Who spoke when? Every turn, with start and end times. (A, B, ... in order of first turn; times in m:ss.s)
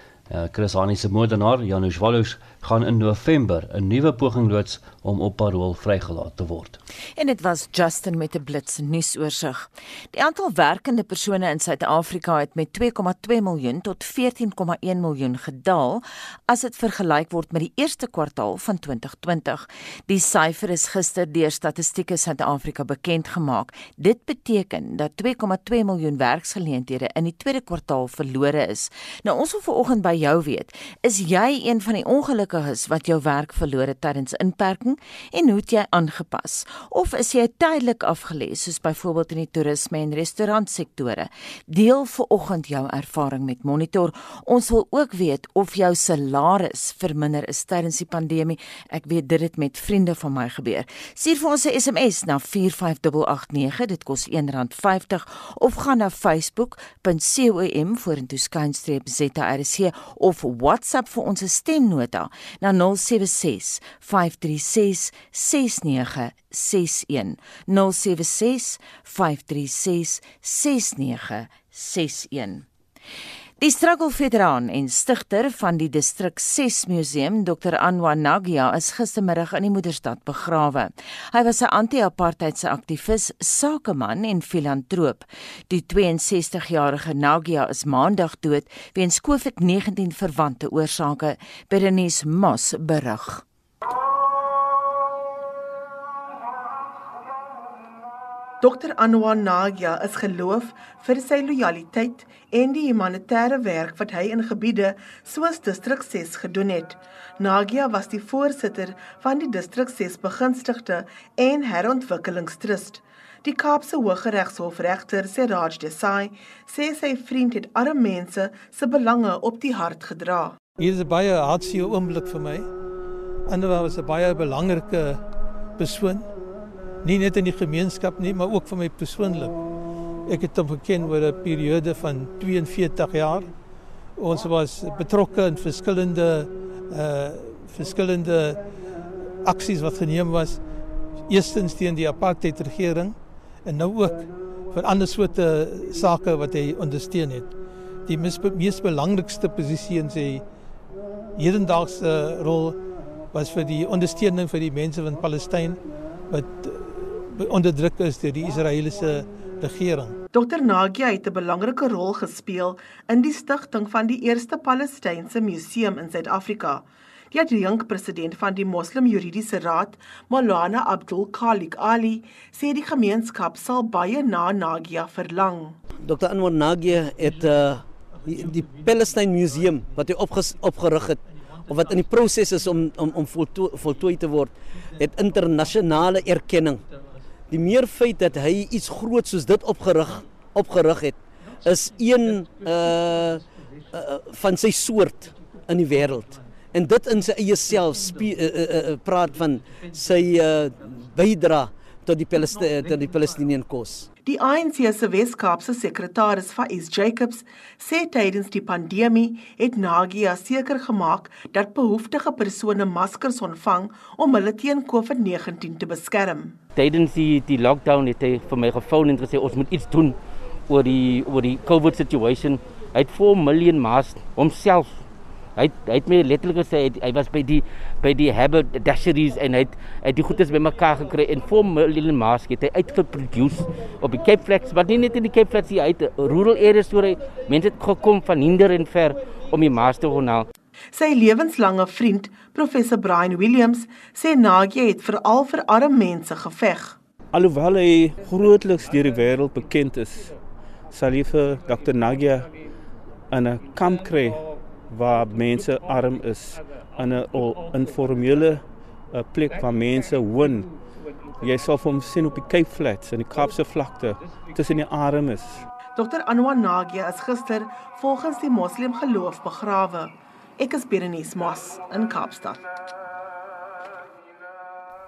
0:00.3-0:06.8 A
0:07.2-1:12.6 B
1:13.6-1:33.4 B
1:38.6-2:00.6 C
2:00.8-2:02.7 D
2:03.5-2:05.2 D
2:05.8-2:06.3 D
2:07.0-2:09.5 D
2:10.3-2:13.5 D
2:14.2-2:18.6 D
2:19.4-2:20.6 D
2:21.3-2:27.5 D
2:28.1-2:30.4 D
2:31.4-2:32.8 D
2:33.3-2:40.2 D
2:40.3-2:55.8 C
2:56.0-3:06.8 E
3:07.5-3:24.1 E
3:24.2-3:36.6 C
3:36.8-3:45.0 F
3:45.6-4:00.5 F
4:00.9-4:07.0 C
4:07.3-4:10.4 G
4:10.9-4:12.5 G
4:13.3-4:20.7 G
4:21.4-4:25.6 G
4:26.0-4:32.6 C